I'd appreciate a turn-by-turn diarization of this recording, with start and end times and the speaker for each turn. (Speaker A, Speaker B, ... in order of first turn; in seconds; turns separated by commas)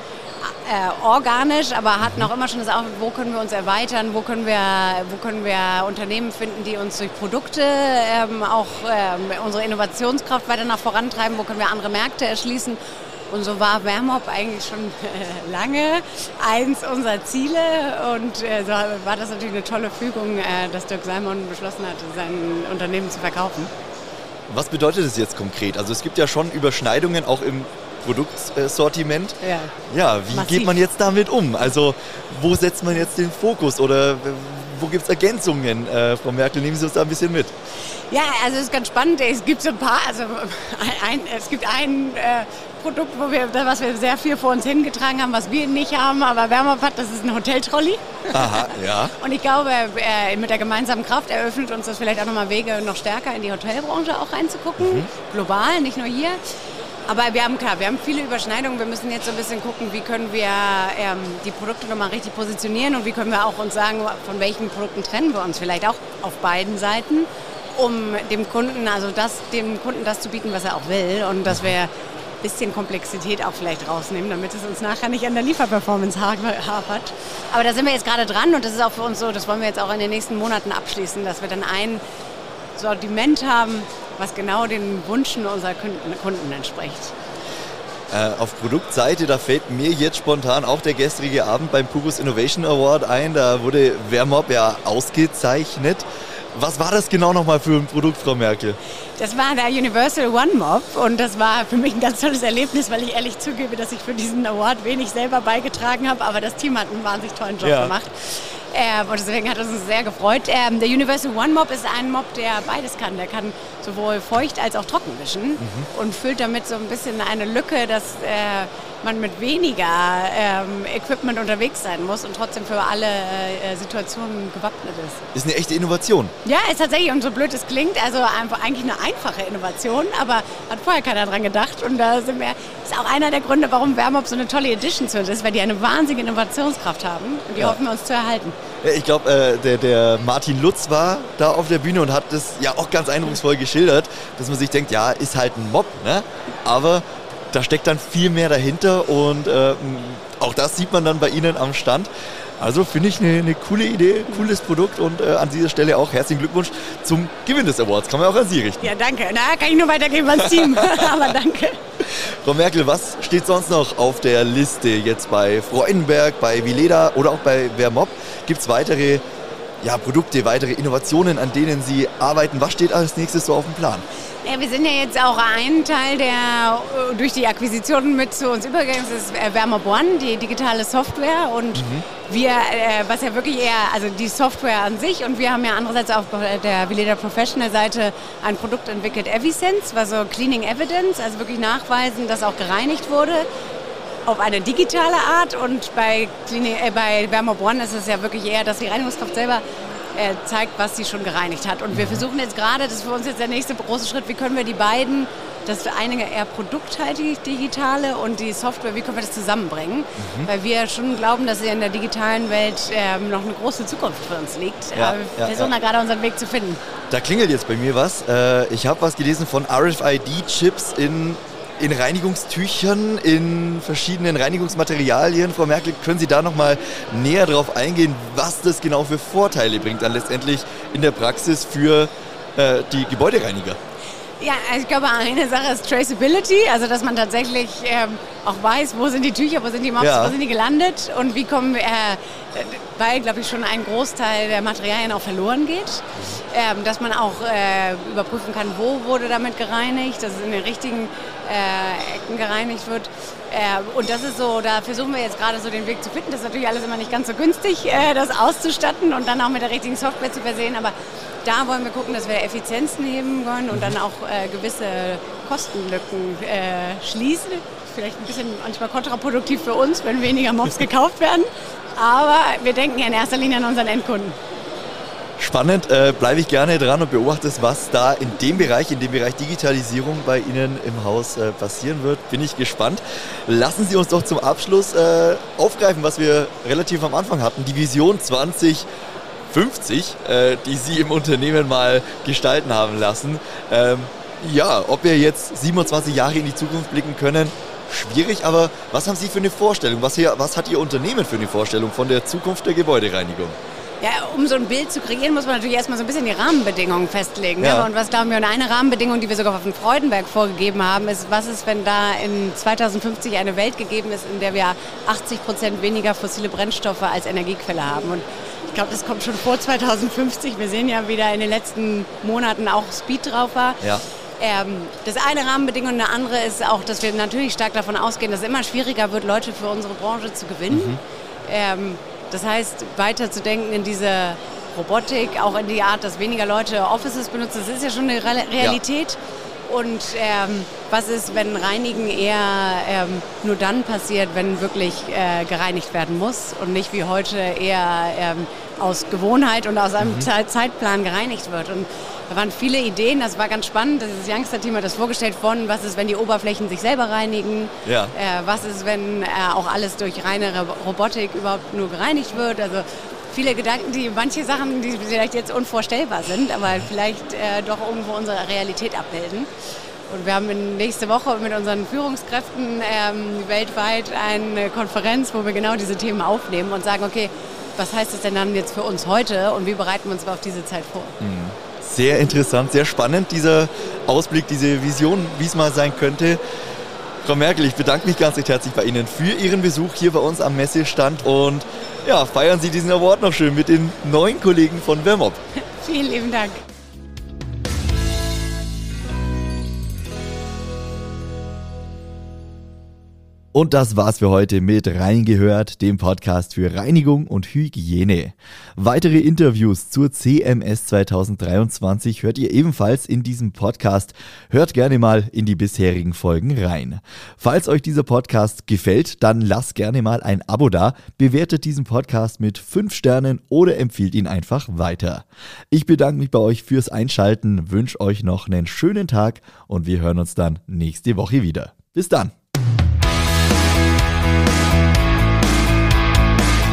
Speaker A: 0.4-12.8, Speaker B: 2.0-2.3, Speaker A: 13.3-23.7, Speaker B: 24.5-29.4, Speaker A: 29.4-29.8, Speaker B: 29.9-37.5, Speaker A: 30.3-30.8, Speaker A: 38.1-56.4, Speaker B: 48.3-49.1, Speaker B: 54.8-55.1, Speaker A: 57.1-71.9, Speaker A: 72.4-82.0, Speaker A: 82.8-87.2, Speaker B: 88.1-98.8, Speaker A: 99.2-125.2, Speaker B: 107.6-107.9, Speaker B: 115.6-115.9, Speaker B: 125.3-126.3, Speaker A: 126.4-138.6, Speaker B: 138.8-158.9, Speaker A: 158.8-161.8, Speaker B: 160.4-161.1, Speaker B: 162.0-169.2, Speaker B: 169.8-174.1, Speaker A: 174.4-193.5, Speaker B: 181.8-182.0, Speaker A: 194.3-199.6, Speaker A: 200.1-216.8, Speaker B: 201.9-202.2, Speaker B: 210.2-210.5, Speaker B: 214.9-215.7, Speaker B: 217.1-233.8, Speaker A: 234.4-274.4, Speaker B: 240.0-240.4, Speaker B: 275.4-288.9, Speaker B: 289.5-303.6, Speaker A: 304.0-323.8, Speaker B: 307.6-307.9, Speaker A: 324.4-369.5, Speaker B: 330.7-331.0, Speaker B: 350.0-350.3, Speaker B: 357.9-358.1, Speaker A: 370.1-381.2, Speaker B: 381.2-386.4, Speaker B: 387.2-395.4, Speaker A: 395.8-396.6, Speaker B: 403.5-432.3